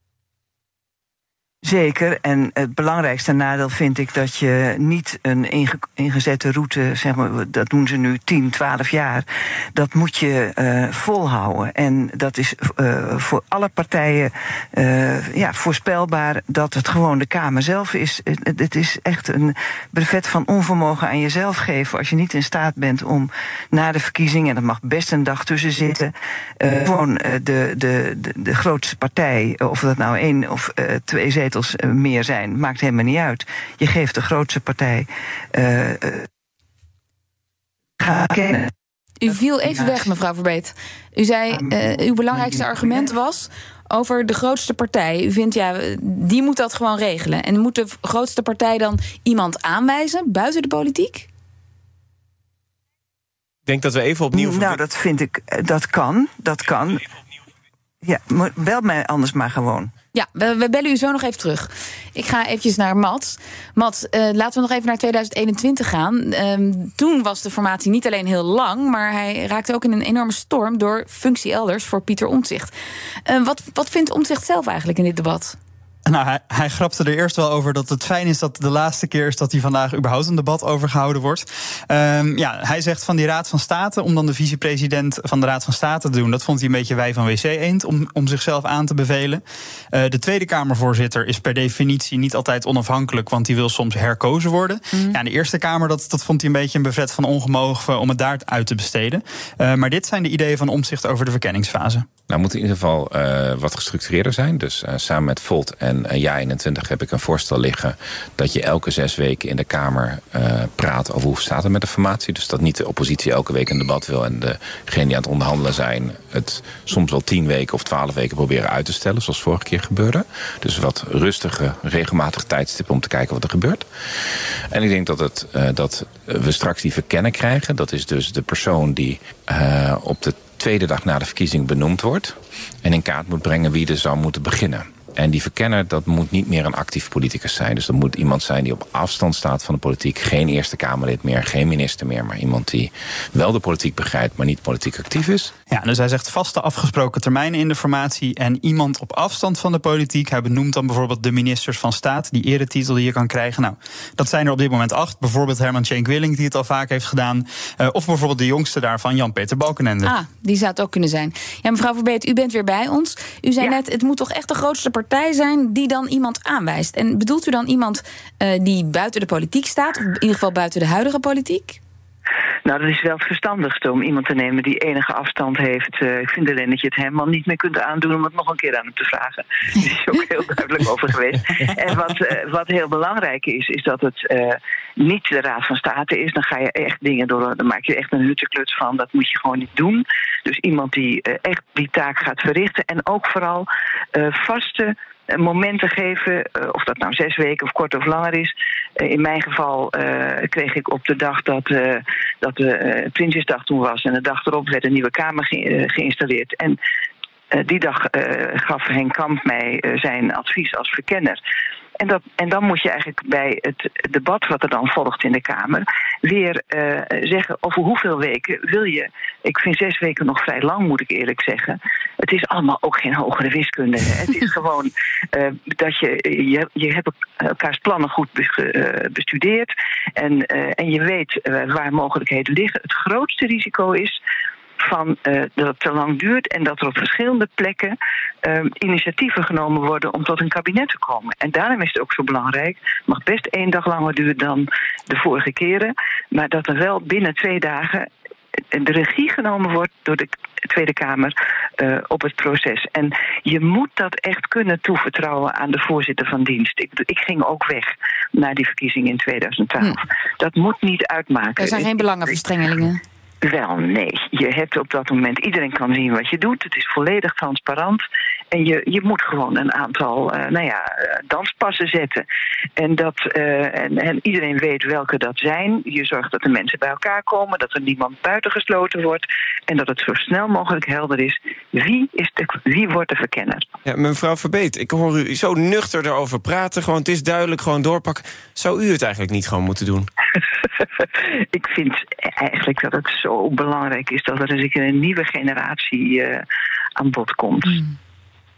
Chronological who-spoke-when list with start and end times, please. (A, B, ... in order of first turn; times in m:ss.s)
0:01.6-0:36.2 A
0:38.0-0:38.7 A
0:39.2-0:51.3 B
0:39.7-0:39.9 A
0:42.3-0:43.0 A
0:53.7-0:54.7 C
0:54.3-0:57.0 A
0:58.0-0:59.9 A
1:00.1-1:12.7 B
1:13.2-1:15.6 B
1:16.0-1:29.4 D
1:29.9-1:42.0 D
1:42.3-2:03.8 E
2:04.7-2:25.5 E
2:25.7-2:40.1 D
2:40.0-2:51.8 B
2:52.6-3:26.8 A
3:27.5-3:31.4 A
3:32.0-3:54.2 A
3:54.8-4:08.1 A
4:08.7-4:21.9 A
4:21.6-4:23.0 B
4:23.4-4:32.2 A
4:32.8-4:43.6 A
4:43.8-4:50.1 C
4:51.2-4:56.4 A
4:57.0-4:57.8 A